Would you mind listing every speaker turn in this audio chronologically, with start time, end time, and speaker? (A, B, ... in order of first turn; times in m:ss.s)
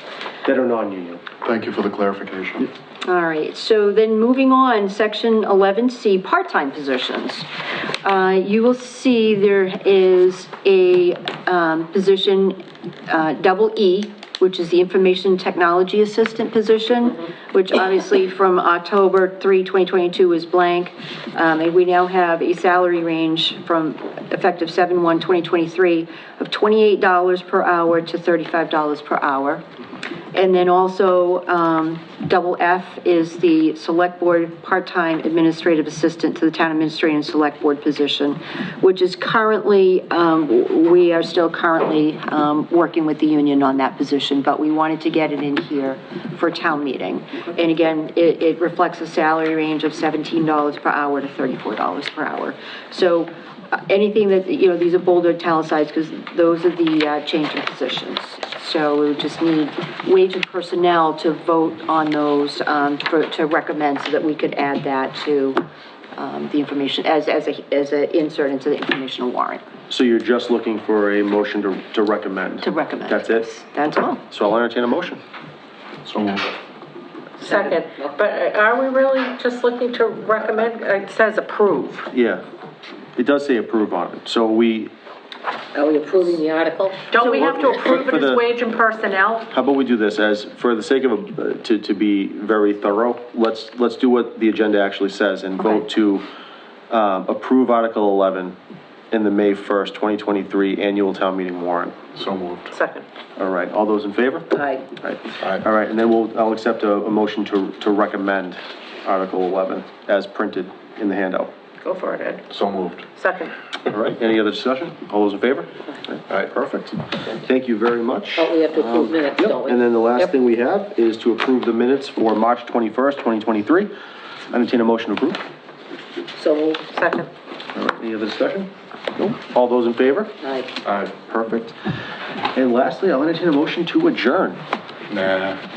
0:00.4-0:01.2 A
0:01.4-0:02.7 B
0:03.0-0:07.5 C
0:08.0-0:29.6 C
0:30.3-1:09.7 C
1:09.9-1:13.4 A
1:12.6-1:14.3 C
1:14.3-1:15.2 A
1:16.0-1:16.6 B
1:17.4-1:21.8 D
1:17.4-1:18.1 E
1:21.8-1:22.1 C
1:22.1-1:22.4 A
1:23.2-1:24.9 A
1:25.7-1:27.5 E
1:27.1-1:27.7 C
1:27.1-1:28.5 A
1:27.2-1:29.4 D
1:29.5-1:36.2 A
1:36.9-1:38.6 A
1:39.1-1:42.0 A
1:42.2-1:42.7 B
1:42.7-1:43.1 D
1:43.4-1:51.5 A
1:44.6-1:44.8 E
1:51.8-1:52.4 D
1:52.5-1:53.1 B
1:53.2-1:53.5 D
1:53.9-2:03.9 A
1:58.4-1:59.8 E
2:04.5-2:05.4 A
2:06.3-2:06.9 E
2:07.0-2:07.3 D
2:07.7-2:10.3 A
2:10.4-2:10.7 E
2:10.8-2:11.1 B
2:11.2-2:11.8 A
2:12.5-2:14.6 A
2:15.1-2:15.6 B